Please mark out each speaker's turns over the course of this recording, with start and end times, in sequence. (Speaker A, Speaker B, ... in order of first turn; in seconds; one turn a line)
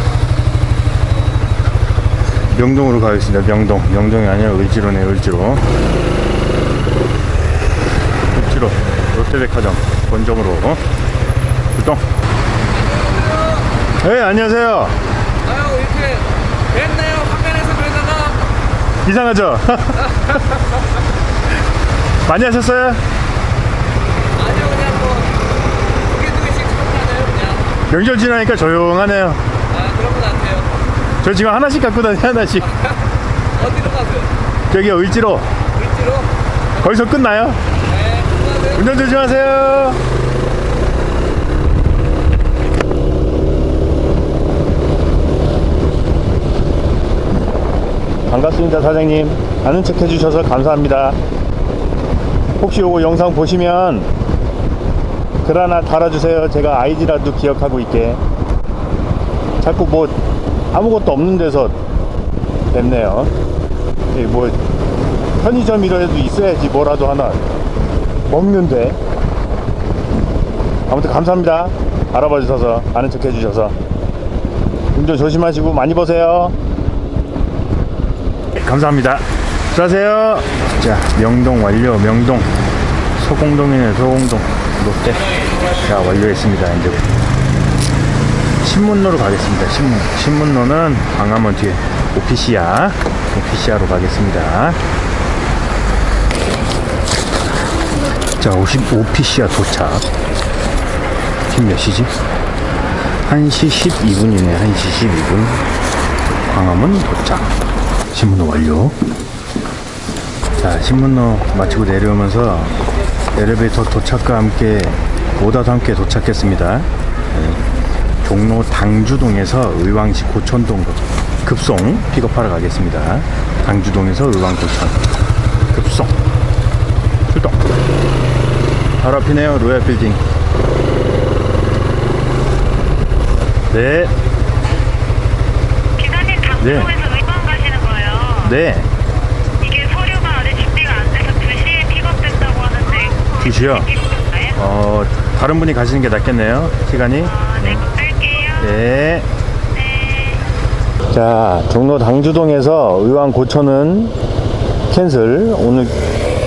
Speaker A: 2.5-5.7
Speaker A: 8.3-10.8
Speaker A: 11.7-12.0
Speaker B: 12.9-13.6
Speaker A: 14.0-15.0
Speaker B: 15.5-18.4
Speaker A: 19.0-20.4
Speaker A: 22.2-23.0
Speaker B: 24.4-25.3
Speaker B: 26.1-27.7
Speaker A: 27.8-29.4
Speaker B: 29.7-30.7
Speaker A: 31.2-32.9
Speaker B: 33.6-34.3
Speaker A: 34.7-35.5
Speaker B: 35.8-36.3
Speaker A: 36.8-37.6
Speaker B: 38.0-38.6
Speaker A: 38.6-40.0
Speaker A: 48.3-51.2
Speaker A: 52.6-54.1
Speaker A: 55.4-58.2
Speaker A: 59.6-60.2
Speaker A: 60.7-61.8
Speaker A: 62.7-63.3
Speaker A: 64.1-64.6
Speaker A: 65.4-67.4
Speaker A: 68.3-69.0
Speaker A: 70.9-73.8
Speaker A: 74.9-76.5
Speaker A: 78.5-82.5
Speaker A: 83.2-87.1
Speaker A: 88.6-94.8
Speaker A: 98.4-100.1
Speaker A: 101.5-102.1
Speaker A: 103.2-105.6
Speaker A: 106.5-107.6
Speaker A: 108.1-109.0
Speaker A: 110.6-112.8
Speaker A: 113.3-117.6
Speaker A: 118.2-125.0
Speaker A: 125.7-126.2
Speaker A: 127.3-127.6
Speaker A: 129.0-130.2
Speaker A: 133.7-134.2
Speaker C: 136.0-138.4
Speaker A: 136.6-137.0
Speaker A: 138.3-138.9
Speaker C: 139.6-143.4
Speaker A: 143.3-149.3
Speaker C: 144.0-144.3
Speaker C: 147.8-148.5
Speaker C: 149.9-150.4
Speaker A: 151.1-154.2
Speaker A: 154.9-156.0